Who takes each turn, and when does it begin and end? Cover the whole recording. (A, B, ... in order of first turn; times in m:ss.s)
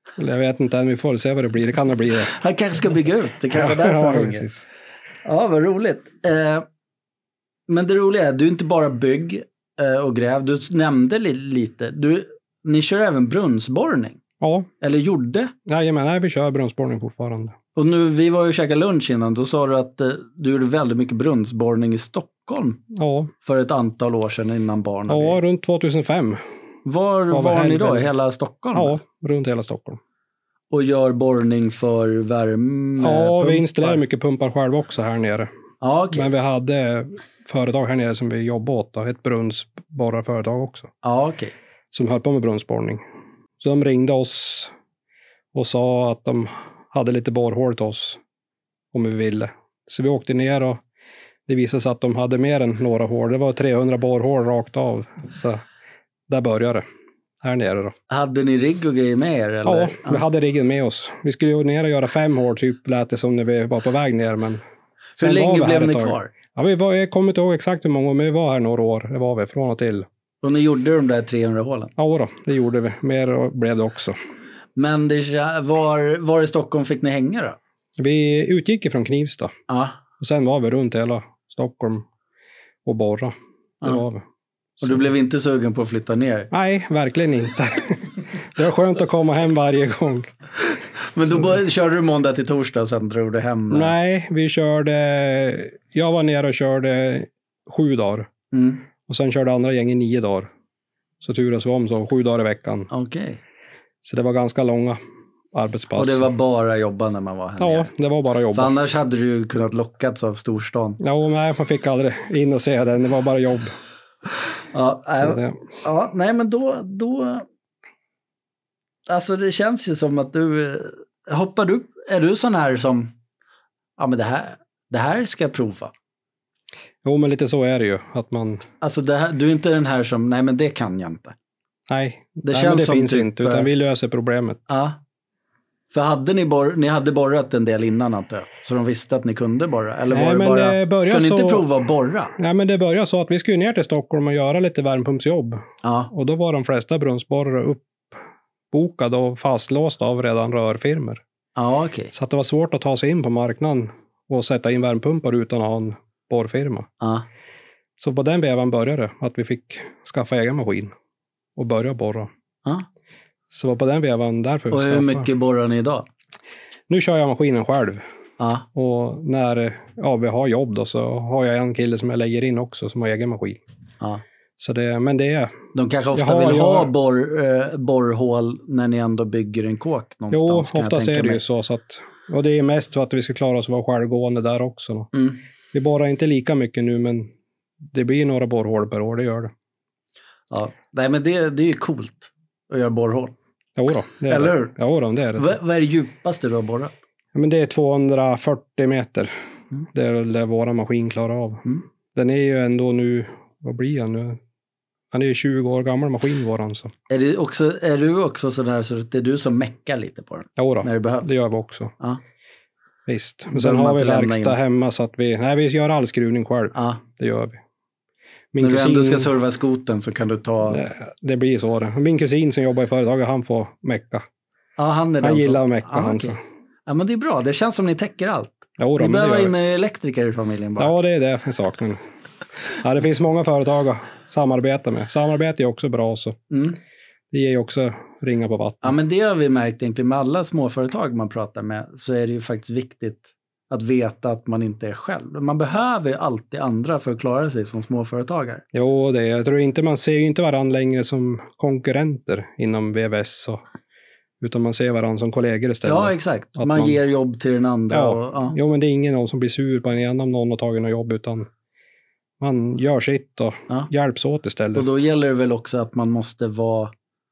0:00.2-0:02.3 A
0:02.3-0:04.5 B
0:03.5-0:04.7 A
0:05.2-0:06.6 B
0:07.7-0:14.2 B
0:14.4-0:14.7 A
0:14.8-0:15.5 B
0:15.7-0:17.6 A
0:17.8-0:22.8 B
0:23.0-0:23.3 A
0:23.4-0:25.4 B
0:25.1-0:26.4 A
0:26.8-0:29.0 B
0:27.3-0:28.1 A
0:28.8-0:30.0 A
0:30.7-0:34.0 B
0:33.0-0:35.5 A
0:35.8-0:36.3 B
0:36.1-0:40.9 A
0:41.0-0:41.5 B
0:41.9-0:43.0 A
0:43.6-0:44.7 A
0:45.5-0:48.2 A
0:48.9-0:50.8 A
0:51.5-0:55.6 A
0:56.3-0:56.8 A
0:57.4-0:58.0 A
0:58.1-1:00.2 B
0:59.6-1:04.6 A
1:05.2-1:10.1 A
1:05.2-1:06.3 B
1:10.4-1:11.9 B
1:12.0-1:14.2 A
1:14.8-1:17.6 B
1:18.0-1:19.5 A
1:19.7-1:20.0 B
1:20.2-1:22.1 A
1:22.8-1:24.2 A
1:24.8-1:26.5 B
1:26.5-1:30.3 A
1:31.2-1:33.9 B
1:33.7-1:38.3 A
1:38.5-1:38.8 B
1:39.1-1:40.5 A
1:41.2-1:42.9 A
1:42.9-1:43.4 B
1:44.0-1:45.0 A
1:45.5-1:46.3 A
1:46.0-1:47.9 B
1:47.6-1:48.7 A
1:48.5-1:51.0 B
1:51.0-1:53.7 A
1:54.7-1:57.4 B
1:55.1-1:55.6 A
1:59.1-2:03.1 B
2:04.0-2:05.9 B
2:07.0-2:08.6 A
2:08.8-2:11.4 B
2:11.9-2:14.7 A
2:12.5-2:13.7 B
2:14.7-2:15.0 B
2:15.9-2:22.3 B
2:20.1-2:21.7 A
2:22.4-2:28.2 A
2:25.8-2:26.1 B
2:28.7-2:31.2 A
2:31.6-2:32.1 B
2:32.1-2:36.9 A
2:37.0-2:37.3 B
2:38.0-2:40.9 A
2:41.6-2:42.3 A
2:43.5-2:45.3 A
2:44.7-2:46.1 B
2:46.9-2:48.0 A
2:48.4-2:48.7 B
2:48.7-2:53.6 A
2:54.6-2:55.6 A
2:55.8-3:01.4 B
2:56.1-2:56.9 A
3:00.3-3:05.1 A
3:05.7-3:07.3 A
3:07.9-3:09.5 A
3:10.5-3:13.4 B
3:13.8-3:15.5 A
3:14.3-3:14.7 B
3:15.4-3:16.9 B
3:17.4-3:19.3 A
3:19.9-3:24.4 A
3:25.1-3:26.9 A
3:27.1-3:31.4 B
3:30.6-3:31.9 A
3:33.1-3:37.6 A
3:33.5-3:34.6 B
3:36.8-3:37.0 B
3:38.5-3:39.3 A
3:38.6-3:40.8 B
3:40.7-3:44.2 A
3:44.8-3:46.4 B
3:45.2-3:46.4 A
3:46.9-3:50.9 B
3:48.8-3:49.5 A
3:50.8-3:52.0 A
3:52.8-3:56.4 A
3:56.5-3:56.8 B
3:57.3-3:59.0 A
3:58.8-4:08.6 B
4:08.7-4:13.6 A
4:14.4-4:17.0 A
4:15.8-4:18.6 B
4:17.9-4:21.5 A
4:22.4-4:24.9 A
4:24.8-4:26.9 B